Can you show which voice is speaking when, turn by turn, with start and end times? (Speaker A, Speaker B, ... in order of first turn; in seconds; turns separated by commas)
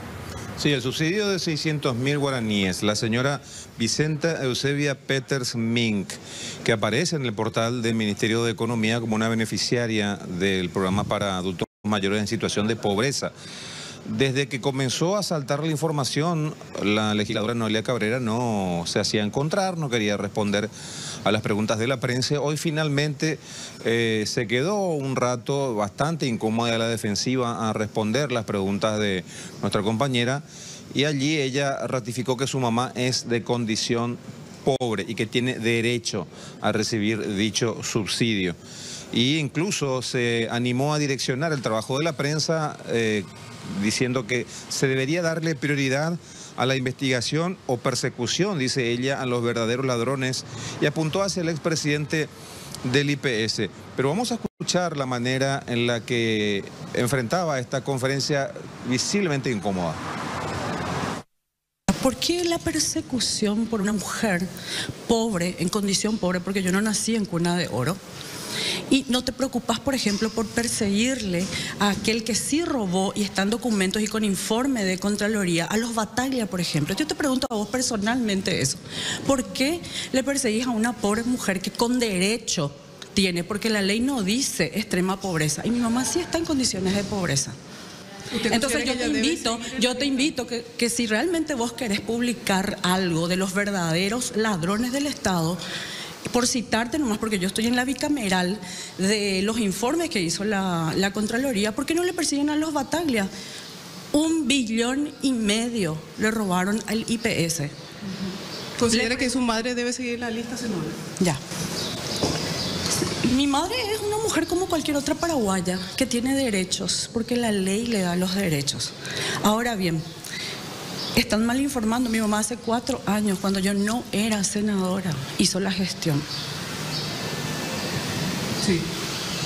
Speaker A: 0.6-13.3, Speaker A: 14.1-20.7, Speaker A: 21.2-38.6, Speaker A: 39.1-52.3, Speaker A: 52.8-60.0, Speaker B: 61.9-64.5, Speaker B: 65.1-68.0, Speaker B: 68.9-87.5, Speaker C: 88.3-90.1, Speaker B: 88.4-95.6, Speaker B: 96.3-103.3, Speaker B: 104.1-107.7, Speaker C: 108.8-111.0, Speaker B: 108.9-109.2, Speaker B: 113.2-120.0, Speaker B: 121.2-126.2